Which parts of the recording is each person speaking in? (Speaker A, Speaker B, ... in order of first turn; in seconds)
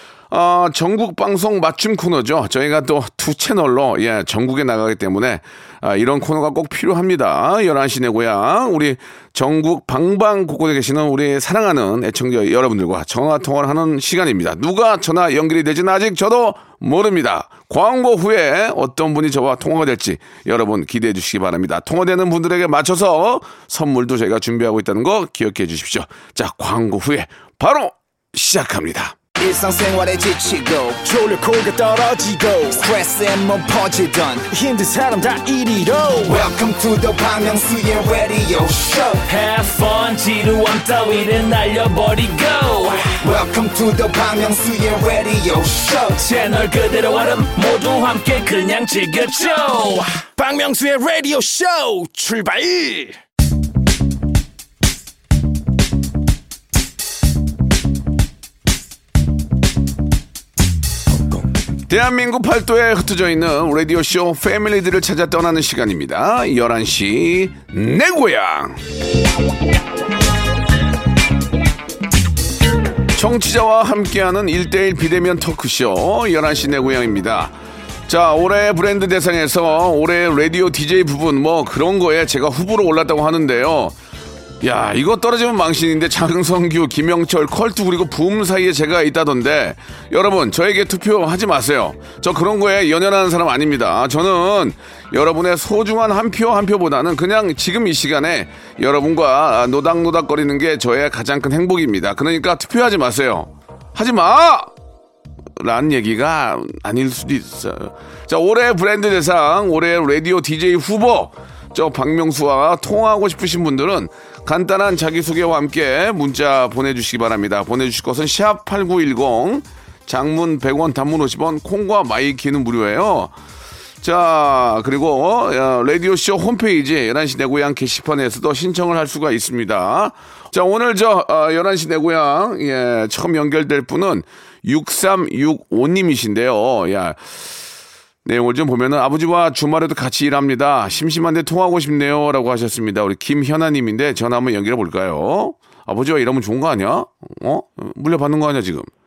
Speaker A: 0.3-29.2, 61.9-68.8, 73.1-77.5, 78.1-83.9, 84.6-104.7, 105.6-123.3, 124.0-137.5, 138.2-148.9
Speaker B: 29.4-31.1, 32.8-34.5, 36.2-39.2, 43.2-46.3
Speaker C: 31.0-32.8, 34.5-36.4, 50.4-53.1
Speaker D: 39.2-43.1, 46.2-50.2